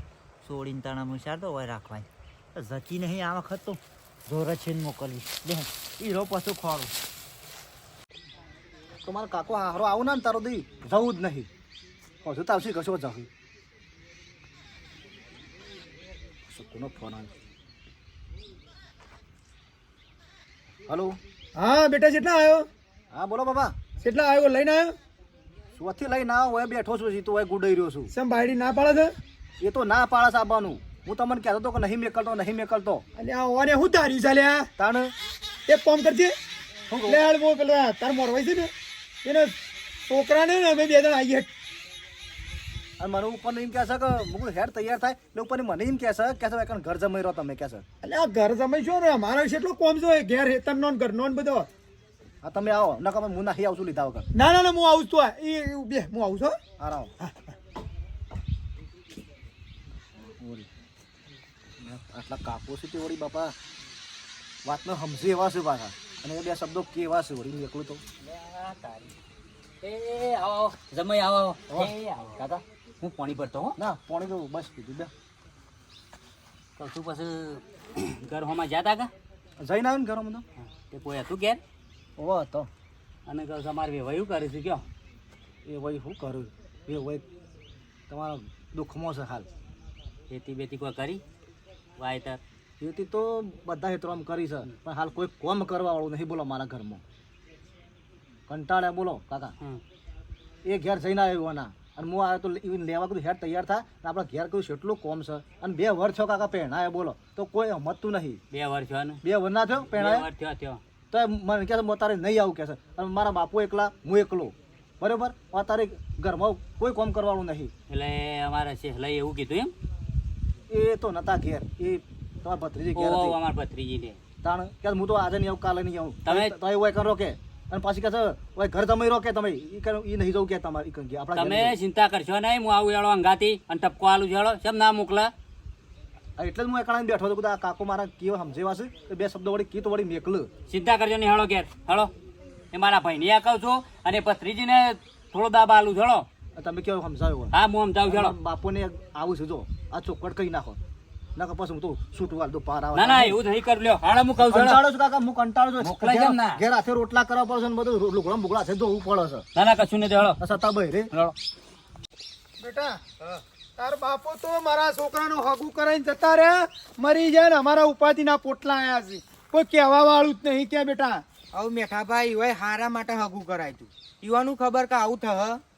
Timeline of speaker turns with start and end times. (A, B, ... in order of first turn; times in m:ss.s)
0:00.4-0:06.9 A
0:09.0-0:11.5 B
0:12.2-0:13.3 B
0:16.5-0:17.3 B
0:20.9-0:21.2 B
0:21.6-0:22.6 C
0:23.1-0:23.8 B
0:24.0-0:24.9 C
0:25.8-0:28.1 B
0:28.1-0:29.1 C
0:29.6-0:33.0 B
0:33.2-0:34.6 C
0:34.8-0:35.1 B
0:35.7-0:36.3 C
0:36.9-0:37.2 B
0:37.1-0:38.7 C
0:39.2-0:39.5 C
0:40.1-0:41.4 C
0:43.0-0:47.8 B
0:48.0-0:51.7 C
0:52.4-0:54.3 B
0:54.4-0:56.5 C
0:56.8-0:57.2 B
1:00.4-1:00.7 B
1:01.8-1:03.5 B
1:04.6-1:08.0 B
1:08.2-1:09.1 D
1:09.8-1:13.8 D
1:13.8-1:15.1 B
1:16.8-1:19.1 D
1:19.6-1:20.4 B
1:20.6-1:21.6 D
1:22.2-1:22.7 B
1:23.2-1:24.8 D
1:25.6-1:27.2 B
1:28.1-1:29.5 B
1:30.3-1:31.2 D
1:32.0-1:32.4 D
1:32.8-1:37.0 B
1:38.5-1:39.5 B
1:40.6-1:48.4 B
1:48.5-1:49.2 D
1:49.2-1:50.3 B
1:49.9-1:50.8 D
1:51.1-1:57.7 B
1:57.9-1:59.7 D
2:00.7-2:03.4 B
2:02.9-2:04.2 D
2:04.4-2:11.8 B
2:06.2-2:06.5 D
2:11.3-2:15.3 D
2:16.4-2:20.5 B
2:20.7-2:22.1 D
2:22.7-2:26.2 D
2:26.6-2:27.5 B
2:27.5-2:28.4 D
2:28.0-2:30.8 B
2:31.4-2:33.4 B
2:32.9-2:34.8 D
2:34.4-2:39.4 B
2:35.8-2:36.6 D
2:39.5-2:40.4 D
2:40.4-2:41.1 B
2:42.6-2:43.0 C
2:43.8-2:51.2 C
2:51.5-2:55.6 E